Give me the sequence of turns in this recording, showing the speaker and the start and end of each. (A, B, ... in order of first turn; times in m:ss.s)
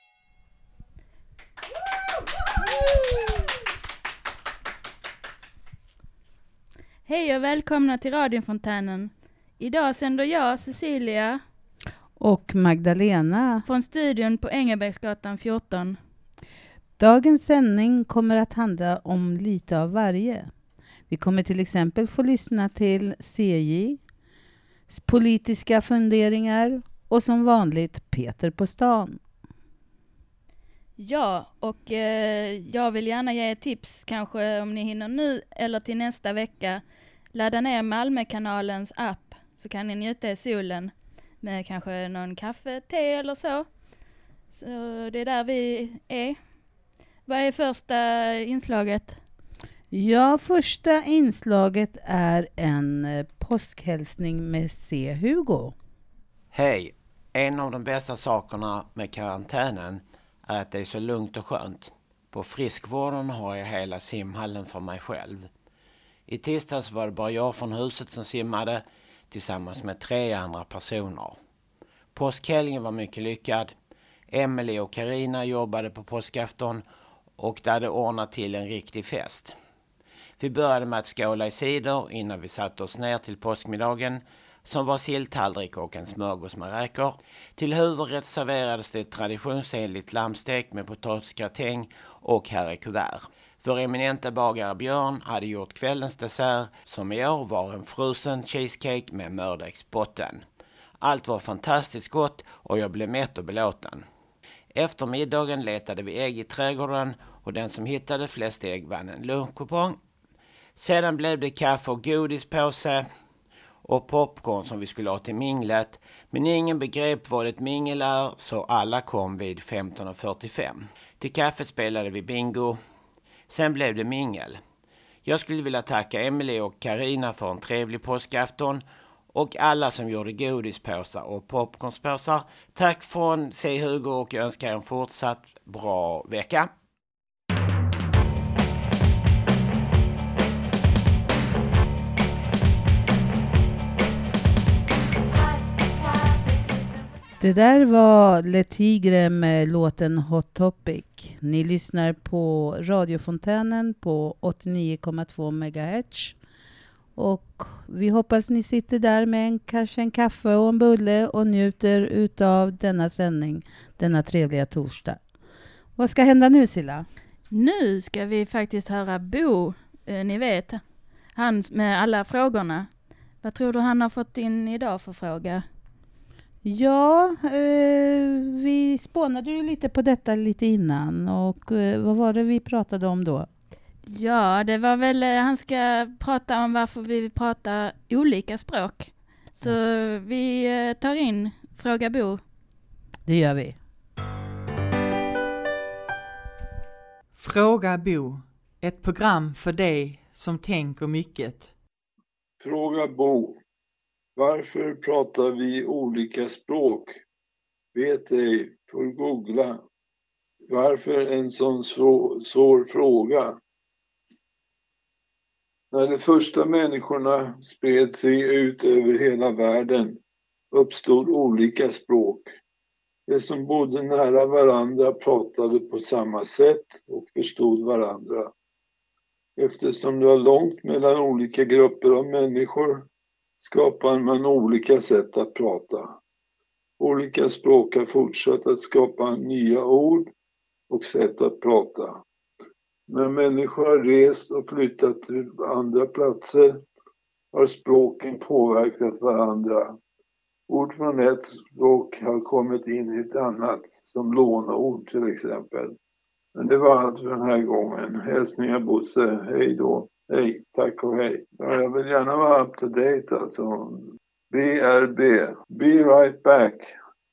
0:07.1-0:11.4 A
0:12.2-0:13.6 B
0:13.7-0:16.0 A
0:17.0-0:20.5 B
0:21.1-0:24.0 B
0:24.9-0:29.2 B
0:31.0-0:36.8 A
0:37.3-0:43.7 A
0:44.5-0:46.4 A
0:47.3-0:49.2 A
0:49.9-0:55.8 B
0:56.5-1:05.5 C
1:06.3-1:11.4 C
1:12.1-1:13.7 C
1:14.3-1:16.8 C
1:17.4-1:19.5 C
1:20.4-1:40.4 C
1:41.0-1:44.0 C
1:44.7-1:50.0 C
1:50.8-1:53.1 C
1:53.8-2:02.8 C
2:03.5-2:04.6 C
2:05.2-2:16.7 C
2:27.4-2:36.4 B
2:37.2-2:45.2 B
2:46.0-2:47.1 B
2:47.5-2:50.8 A
2:51.4-2:52.9 A
2:53.4-2:55.6 A
2:56.6-3:03.5 B
3:04.1-3:12.4 A
3:13.3-3:13.8 B
3:17.4-3:21.7 D
3:22.6-3:23.6 E
3:24.4-3:27.2 E
3:28.0-3:29.8 E
3:30.7-3:33.6 E
3:35.9-3:40.2 E
3:40.7-3:42.5 E
3:43.3-3:48.5 E
3:49.6-3:53.1 E
3:53.6-3:56.2 E
3:57.0-4:00.3 E
4:00.9-4:02.2 E
4:03.1-4:06.9 E
4:07.5-4:10.0 E
4:10.7-4:16.0 E
4:16.6-4:27.0 E